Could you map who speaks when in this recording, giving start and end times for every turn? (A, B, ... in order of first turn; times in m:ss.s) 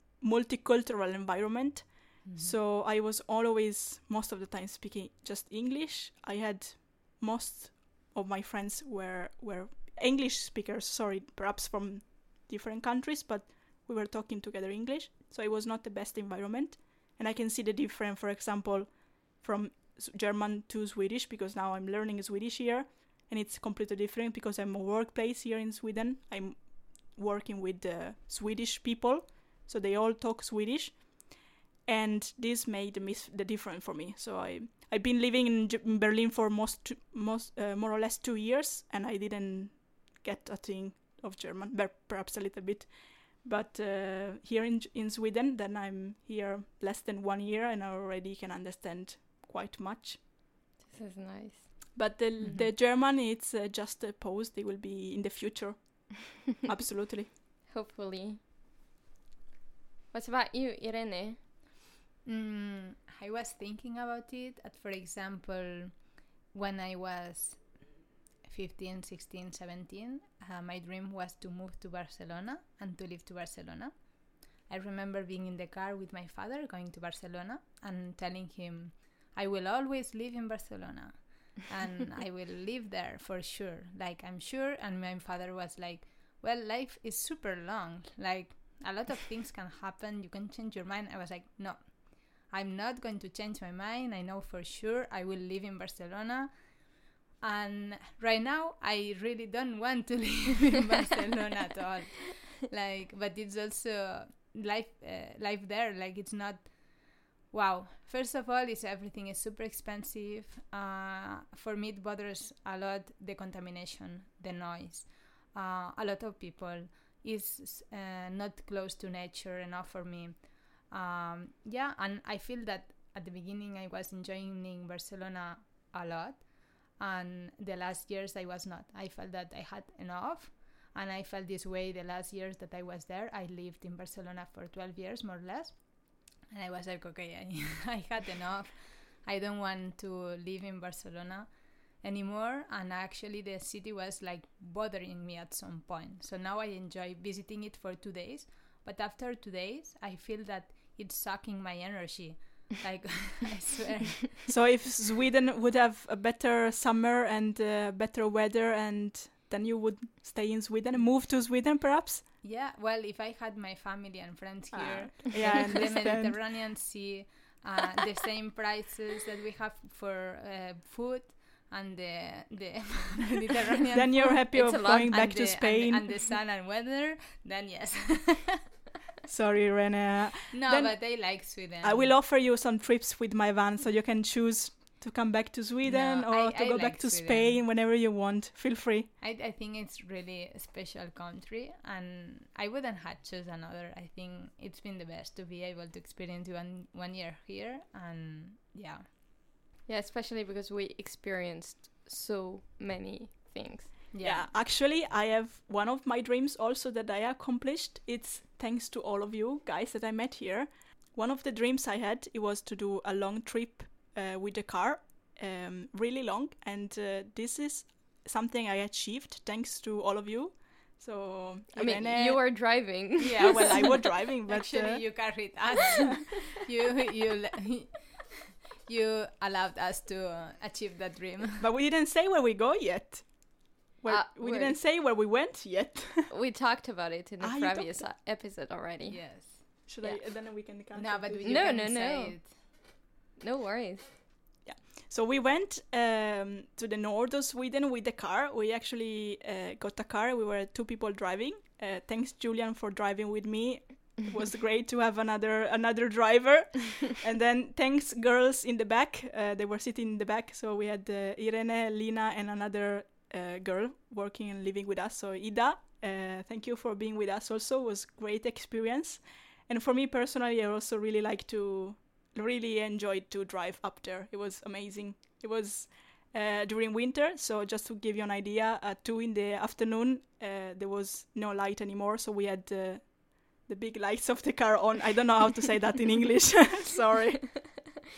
0:00.2-0:50.2 A
0:02.2-0:02.6 B
0:50.8-0:51.8 C
0:51.9-0:57.3 A
0:52.4-0:52.7 B
0:57.7-0:58.4 C
1:00.1-1:01.4 C
1:02.2-2:34.5 B
2:34.5-2:42.2 A
2:42.4-2:58.6 B
2:44.7-2:46.4 A
2:53.9-2:56.2 A
2:54.5-2:55.3 C
2:59.3-3:09.1 A
3:00.5-3:02.1 B
3:05.8-3:07.6 B
3:09.2-3:19.0 B
3:19.9-3:24.0 C
3:24.1-3:24.5 B
3:24.2-3:45.7 A
3:41.7-3:44.0 C
3:43.2-3:48.3 B
3:48.8-3:51.6 B
3:51.6-3:56.3 A
3:54.1-3:54.8 C
3:56.3-4:00.2 C
3:57.4-3:58.1 A
3:59.1-3:59.6 B
3:59.9-4:01.7 A
4:00.9-4:02.5 B
4:01.4-4:04.1 C
4:04.6-4:48.0 A